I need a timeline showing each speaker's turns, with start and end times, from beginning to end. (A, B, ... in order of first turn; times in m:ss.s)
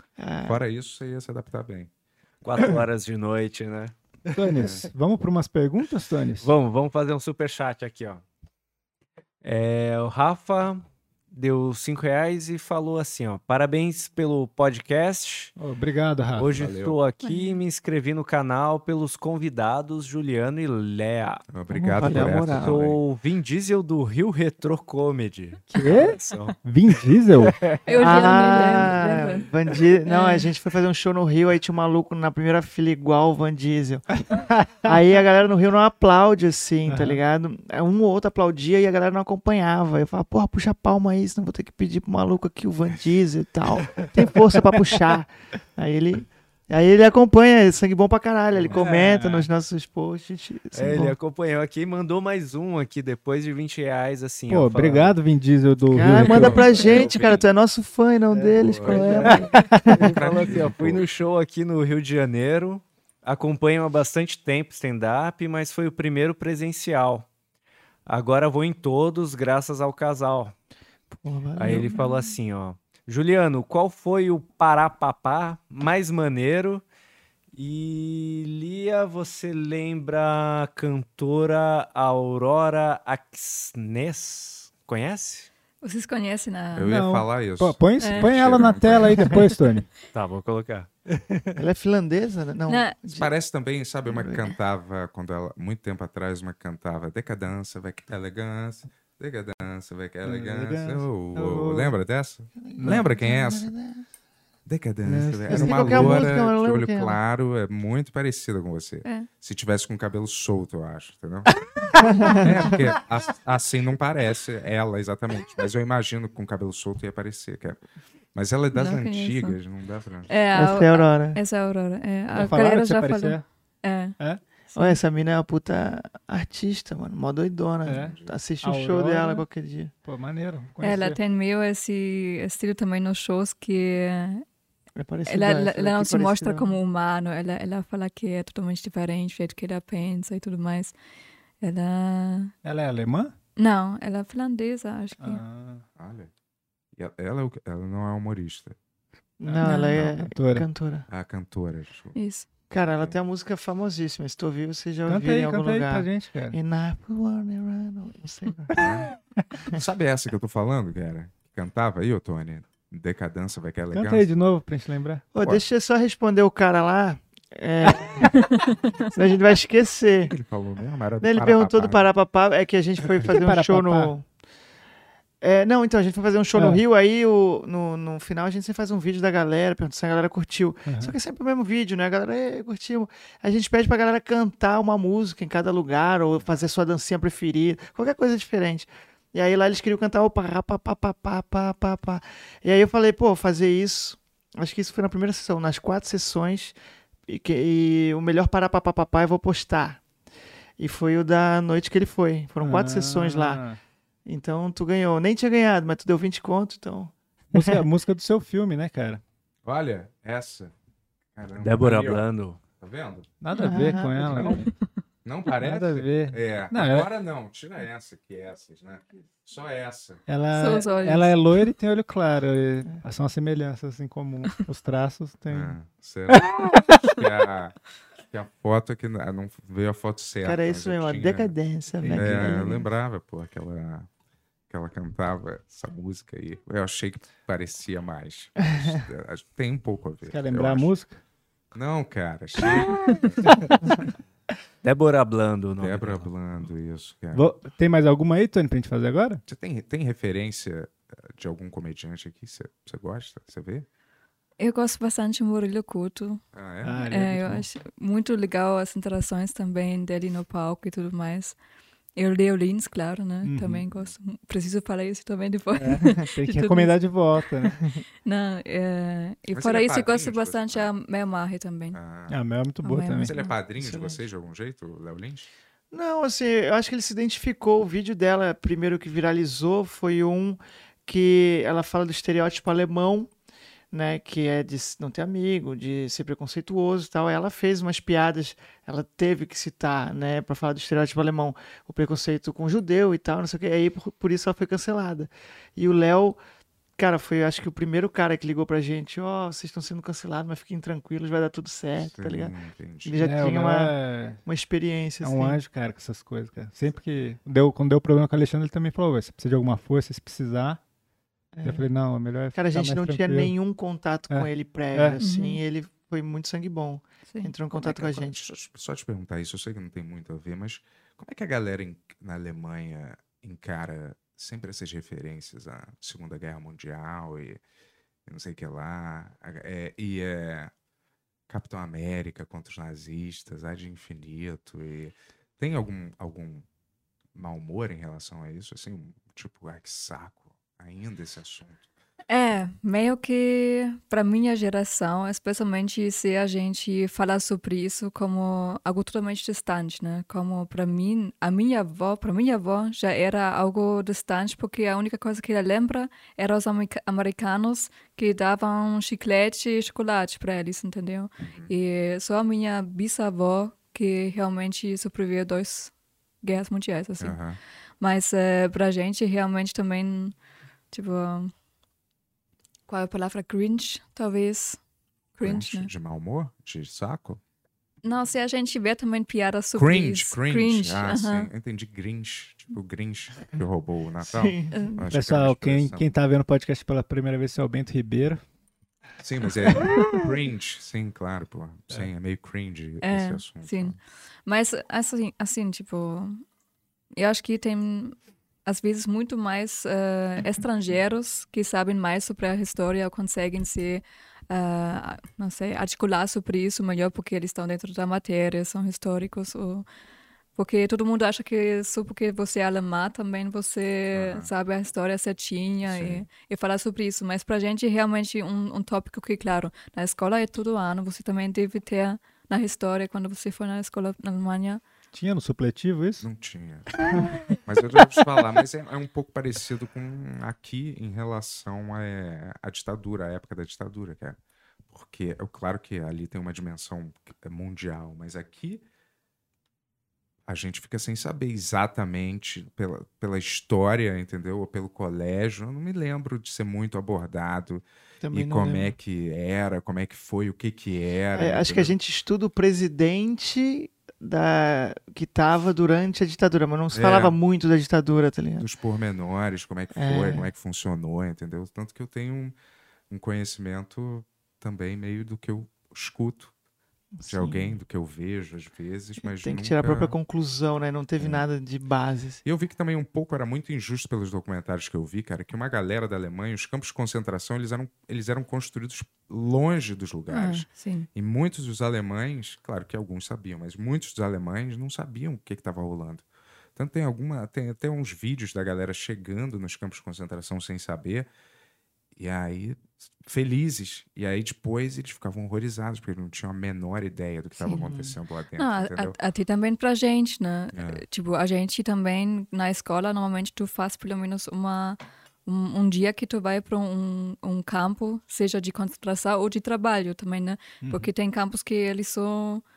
0:00.2-0:00.6 A
0:00.4-0:01.9 B
0:02.4-0:03.9 C
0:04.3-0:06.5 D
0:04.6-0:04.8 B
0:06.4-0:08.2 C
0:09.4-0:15.5 C
0:15.6-0:16.5 D
0:16.4-0:21.4 C
0:16.5-0:17.0 B
0:17.2-0:17.6 E
0:21.5-0:23.0 B
0:21.7-0:22.8 A
0:22.0-0:26.6 C
0:25.7-0:28.9 D
0:27.4-0:27.8 C
0:27.8-0:29.5 E
0:28.0-0:34.1 A
0:30.1-0:30.5 E
0:34.3-0:34.9 D
0:34.8-0:51.1 A
0:36.9-0:37.2 D
0:48.7-0:49.5 D
0:50.7-0:55.2 C
0:54.5-0:56.7 D
0:55.9-1:00.0 A
0:56.0-0:57.4 C
0:56.1-0:57.4 B
0:58.3-1:07.3 C
0:58.6-1:01.1 B
0:58.9-1:00.0 D
1:08.1-1:10.5 C
1:11.1-1:12.0 A
1:11.6-1:16.8 C
1:11.7-1:12.1 E
1:17.5-1:25.5 C
1:25.8-1:26.9 E
1:26.8-1:29.5 B
1:26.8-1:29.9 D
1:28.0-1:28.3 E
1:30.1-1:31.3 C
1:31.6-1:33.3 A
1:32.7-1:33.0 E
1:33.1-1:43.7 B
1:34.1-1:34.6 A
1:40.2-1:42.0 D
1:42.6-1:44.0 A
1:42.8-1:43.1 D
1:44.6-1:57.8 B
1:45.1-1:47.2 A
1:45.2-1:46.3 D
1:52.0-1:52.8 A
1:58.4-2:00.3 B
1:58.7-1:59.6 E
2:00.3-2:04.1 E
2:00.5-2:01.4 A
2:02.3-2:03.4 D
2:04.7-2:05.0 E
2:04.7-2:09.9 A
2:07.8-2:09.4 D
2:07.9-2:08.4 B
2:10.0-2:11.2 D
2:10.8-2:14.4 E
2:15.0-2:16.7 A
2:15.3-2:21.0 E
2:21.6-2:22.5 E
2:22.6-2:23.3 D
2:23.6-2:25.4 E
2:25.2-2:25.8 D
2:26.0-2:26.3 B
2:26.9-2:28.8 B
2:29.4-2:31.1 A
2:29.4-2:30.7 D
2:29.6-2:30.0 E
2:31.1-2:32.2 B
2:32.1-2:32.4 E
2:32.7-2:38.8 A
2:35.1-2:36.6 D
2:38.8-2:39.1 B
2:39.7-2:44.3 B
2:43.9-2:45.2 D
2:45.3-2:50.3 A
2:45.4-2:45.7 B
2:48.4-2:49.1 E
2:50.3-2:52.1 B
2:51.2-2:54.3 A
2:53.3-2:54.1 D
2:55.4-3:16.7 A
2:56.6-2:56.8 D
3:00.9-3:01.2 D
3:17.3-3:20.0 A
3:20.8-3:23.6 A
3:22.6-3:23.8 D
3:24.3-3:27.8 A
3:27.5-3:29.2 D
3:29.6-3:30.7 B
3:31.4-3:32.2 B
3:31.6-3:32.6 C
3:32.8-3:33.3 B
3:33.4-3:34.7 D
3:33.5-3:34.6 E
3:33.6-3:34.6 A
3:34.3-3:34.6 B
3:35.2-3:40.2 B
3:35.6-3:37.1 D
3:40.3-3:45.8 D
3:40.5-3:41.4 E
3:45.5-3:51.5 B
3:46.3-3:47.1 D
3:50.4-3:52.9 A
3:52.0-3:52.8 D
3:52.1-3:54.1 B
3:54.7-4:00.9 B
4:00.3-4:01.2 D
4:01.7-4:03.6 B
4:04.8-4:06.3 C
4:05.8-4:07.5 B
4:07.3-4:09.4 D
4:09.5-4:13.9 B
4:14.6-4:16.4 E
4:16.5-4:17.1 B
4:16.8-4:17.6 D
4:17.0-4:21.6 E
4:22.2-4:32.0 E
4:23.4-4:23.8 D
4:23.8-4:24.1 B
4:25.8-4:27.8 D
4:29.5-4:30.9 B
4:31.9-4:32.4 B
4:32.3-4:33.4 D
4:32.8-4:33.5 E
4:33.2-4:35.5 B
4:33.8-4:34.2 A
4:35.9-4:43.3 A
4:43.9-4:56.4 A
4:57.0-5:02.5 A
5:02.0-5:03.2 B
5:03.0-5:05.6 A
5:03.2-5:04.4 D
5:05.2-5:10.8 D
5:11.5-5:11.8 A
5:11.6-5:13.6 D
5:12.5-5:18.4 A
5:14.3-5:15.2 D
5:15.2-5:15.6 E
5:17.8-5:27.6 B
5:28.3-5:30.7 B
5:31.5-5:36.6 B
5:37.4-5:41.8 B
5:42.3-6:05.9 E
6:01.4-6:01.7 B
6:06.4-6:07.4 E
6:07.2-6:07.6 B
6:08.0-6:10.3 E
6:10.9-6:11.5 E
6:12.9-6:14.8 E
6:15.4-6:15.9 E
6:15.4-6:17.4 B
6:18.0-6:21.5 E
6:19.8-6:26.1 B
6:24.2-6:24.9 A
6:24.7-6:25.0 E
6:25.1-6:28.4 D
6:29.2-6:34.0 B
6:33.0-6:36.4 E
6:37.1-6:38.1 E
6:38.6-6:49.9 E
6:50.6-7:04.8 E
6:54.1-6:54.5 B
6:55.8-6:56.3 B
7:05.1-7:06.2 D
7:06.2-7:07.0 B
7:07.6-7:14.4 B
7:14.9-7:18.8 B
7:20.5-7:31.9 B
7:28.2-7:28.9 A
7:31.3-7:38.7 A
7:36.9-7:37.4 B
7:38.6-7:42.6 B
7:39.9-7:40.5 A
7:43.1-7:46.5 B
7:47.2-7:47.8 A
7:47.2-7:50.1 B
7:49.2-7:52.4 A
7:52.4-8:06.2 B
8:00.3-8:01.1 E
8:06.8-8:11.3 B
8:12.1-8:19.2 B
8:17.6-8:18.2 A
8:18.6-8:32.6 E
8:20.7-8:21.0 B
8:30.8-8:31.1 D